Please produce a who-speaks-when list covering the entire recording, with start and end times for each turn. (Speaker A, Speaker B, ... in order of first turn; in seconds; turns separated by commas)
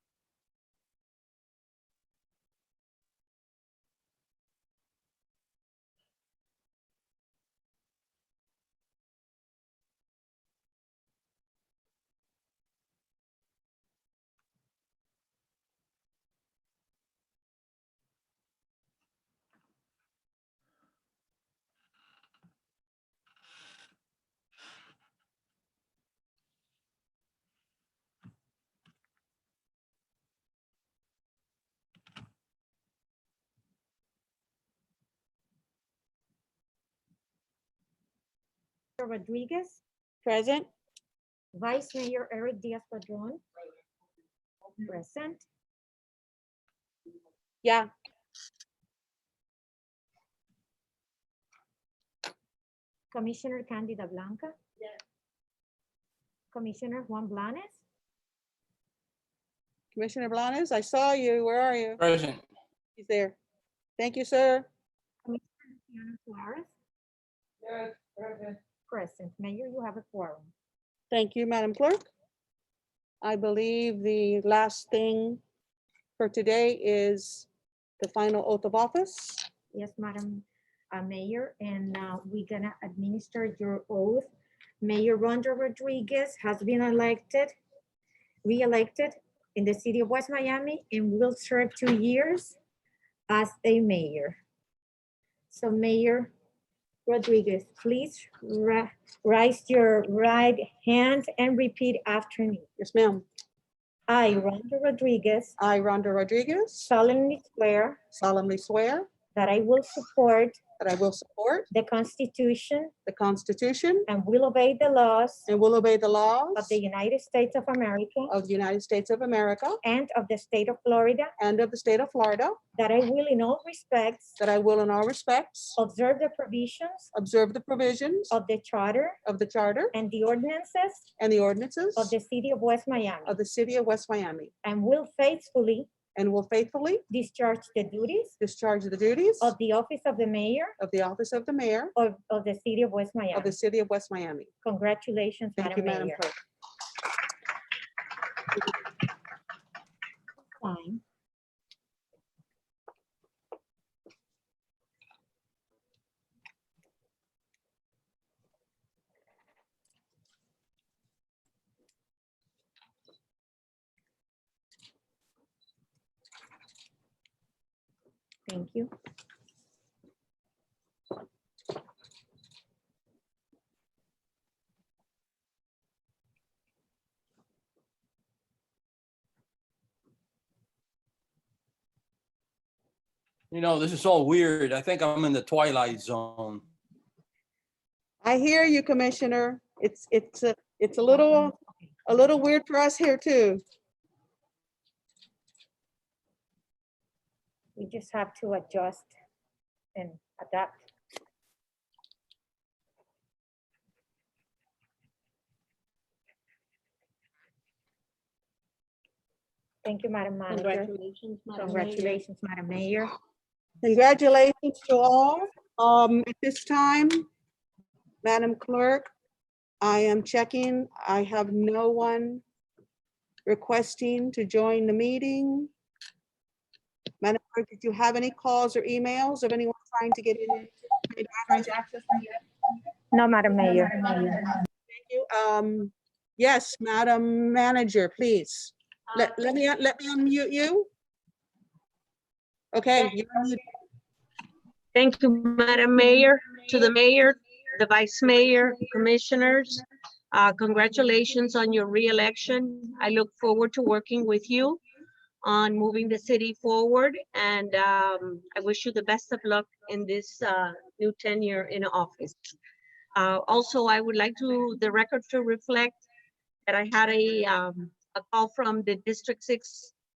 Speaker A: 39.0-39.8, Speaker B: 40.2-40.7, Speaker A: 41.5-43.4, Speaker A: 44.8-45.5, Speaker B: 47.6-47.9, Speaker A: 53.1-54.5, Speaker A: 56.5-57.8, Speaker B: 59.9-62.0, Speaker C: 62.0-62.4, Speaker B: 63.0-63.4, Speaker B: 64.0-64.7, Speaker A: 65.2-66.7, Speaker A: 68.9-70.5, Speaker B: 71.1-72.1, Speaker B: 73.2-75.4, Speaker B: 76.2-77.5, Speaker B: 78.0-79.5, Speaker A: 79.7-84.3, Speaker A: 84.8-87.5, Speaker A: 88.4-92.6, Speaker A: 93.3-94.4, Speaker A: 95.5-96.3, Speaker A: 97.1-102.7, Speaker B: 102.8-103.2, Speaker A: 104.1-105.6, Speaker B: 105.6-106.9, Speaker A: 106.8-108.0, Speaker B: 108.1-109.1, Speaker A: 109.3-110.6, Speaker B: 110.8-111.7, Speaker A: 111.7-112.9, Speaker B: 113.1-114.1, Speaker A: 114.1-115.5, Speaker B: 115.5-116.8, Speaker A: 116.5-118.3, Speaker B: 118.3-119.8, Speaker A: 119.8-121.3, Speaker B: 121.4-122.6, Speaker A: 122.8-124.3, Speaker B: 124.4-125.8, Speaker A: 125.8-127.1, Speaker B: 127.1-128.3, Speaker A: 128.3-129.2, Speaker B: 129.2-129.9, Speaker A: 129.9-131.1, Speaker B: 131.2-132.2, Speaker A: 131.9-133.4, Speaker B: 133.2-134.5, Speaker A: 134.6-135.9, Speaker B: 136.1-137.0, Speaker A: 137.1-138.3, Speaker B: 138.4-139.5, Speaker A: 139.4-140.8, Speaker B: 140.8-141.9, Speaker A: 141.9-143.6, Speaker B: 143.3-144.5, Speaker A: 144.6-146.2, Speaker B: 145.6-146.3, Speaker A: 150.6-151.0, Speaker A: 168.5-168.9, Speaker C: 183.5-186.6, Speaker B: 188.2-193.6, Speaker A: 197.8-199.1, Speaker A: 199.9-200.8, Speaker A: 209.8-210.9, Speaker D: 210.5-212.2, Speaker A: 211.5-213.1, Speaker B: 213.8-217.3, Speaker B: 218.2-219.1, Speaker B: 219.8-222.4, Speaker B: 223.4-225.7, Speaker B: 227.2-232.3, Speaker A: 233.1-234.6, Speaker B: 234.9-240.9, Speaker B: 242.7-243.6, Speaker D: 244.9-254.8, Speaker D: 255.4-262.5, Speaker D: 263.1-266.0, Speaker D: 266.7-269.9